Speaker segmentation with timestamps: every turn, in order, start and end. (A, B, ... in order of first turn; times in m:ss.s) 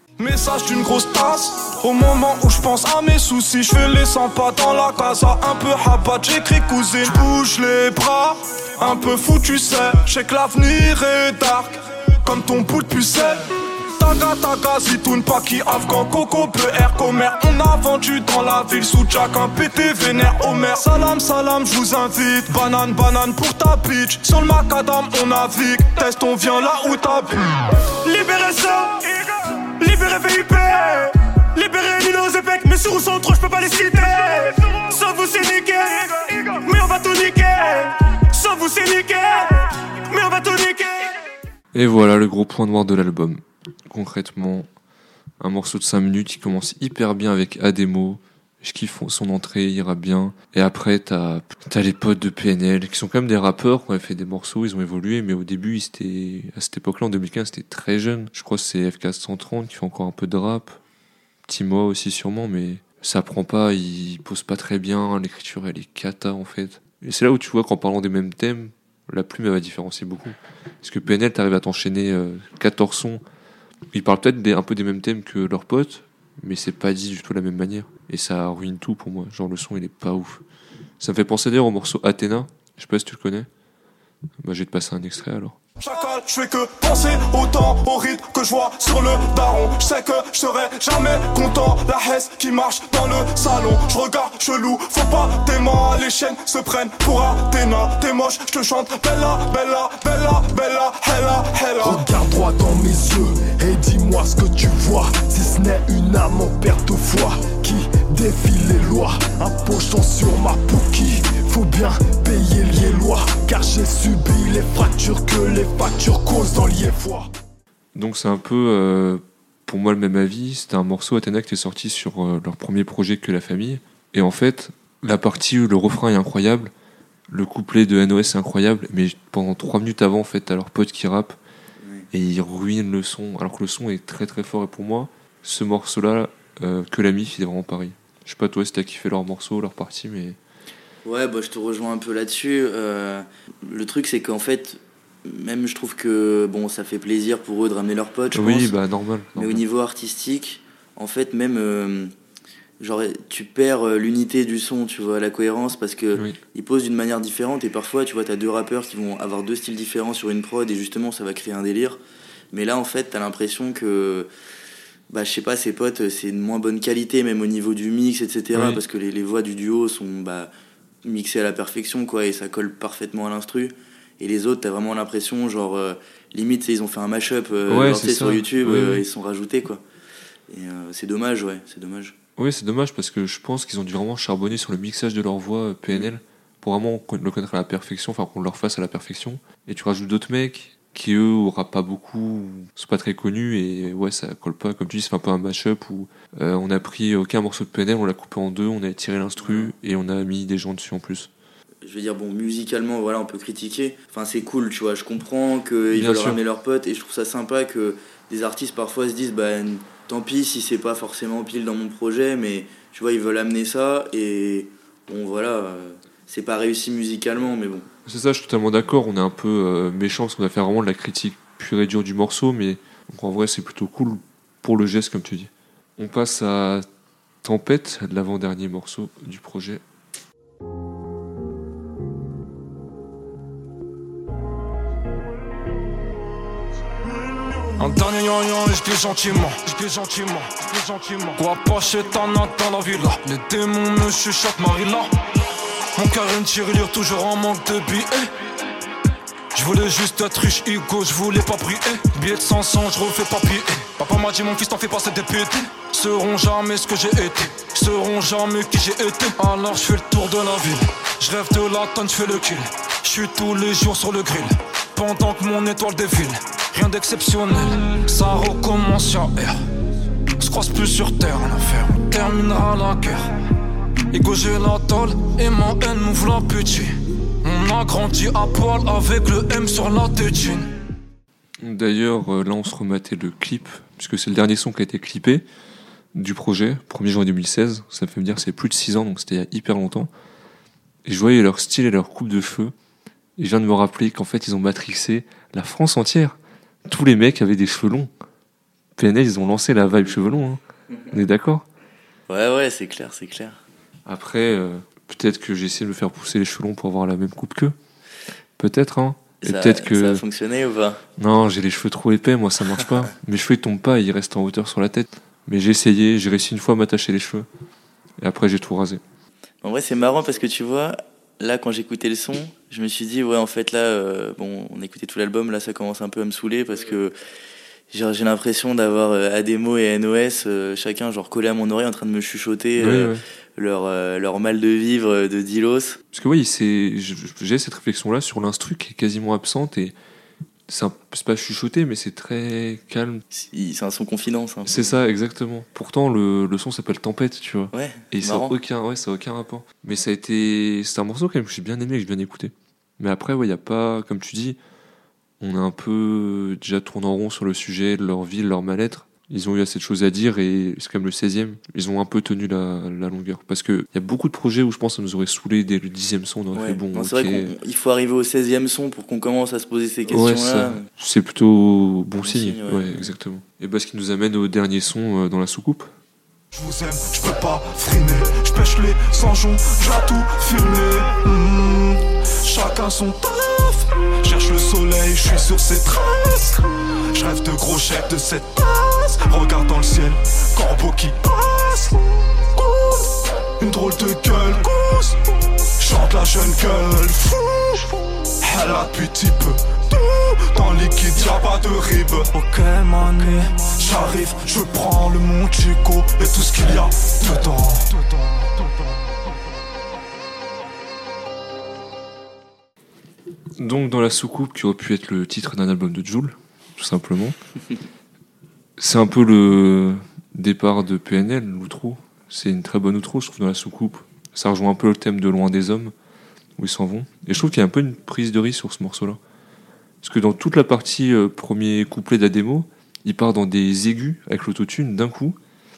0:00.2-0:41.1 A
0:41.7-0:44.7 B
0:45.4-1:00.8 B
1:01.4-1:13.2 B
1:13.9-1:20.4 B
1:21.0-1:23.5 B
1:24.4-1:25.6 B
1:25.8-1:42.0 A
1:41.8-1:57.3 C
1:57.9-2:06.7 B
2:07.3-2:11.4 B
2:11.8-2:12.1 D
2:12.1-2:20.4 B
2:21.0-2:28.7 D
2:28.3-2:29.6 B
2:29.3-2:32.1 D
2:32.8-2:42.0 D
2:42.5-2:44.3 D
2:45.1-2:50.5 D
2:48.5-2:48.8 B
2:51.0-2:59.8 D
2:57.7-2:59.0 B
3:00.5-3:02.2 D
3:02.4-3:21.3 B
3:19.4-3:19.7 D
3:21.8-3:37.9 D
3:25.9-3:26.4 B
3:38.0-3:46.8 B
3:47.4-3:49.8 B
3:57.8-4:05.1 E
4:06.0-4:08.3 E
4:09.5-4:29.6 E
4:30.4-4:33.3 E
4:34.1-4:40.7 E
4:41.6-4:45.4 B
4:46.1-4:50.1 B
4:51.0-4:52.7 B
4:53.4-4:58.1 B
4:59.0-5:00.6 B
5:01.1-5:01.6 B
5:02.3-5:03.6 D
5:04.0-5:07.7 B
5:08.6-5:10.2 B
5:09.4-5:11.0 D
5:11.2-5:17.5 B
5:18.2-5:19.0 B
5:19.6-5:27.1 D
5:27.9-5:36.0 D
5:32.8-5:33.2 B
5:36.1-5:39.9 B
5:40.7-5:43.2 B
5:43.3-5:45.0 D
5:44.6-5:54.6 B
5:47.7-5:48.5 D
5:55.4-6:07.5 B
6:06.5-6:10.9 D
6:10.1-6:15.9 B
6:12.2-6:13.1 D
6:16.5-6:32.9 A
6:33.6-6:48.9 A
6:53.6-6:57.4 B
6:58.8-7:05.9 B
7:06.6-7:09.2 B
7:10.0-7:15.4 B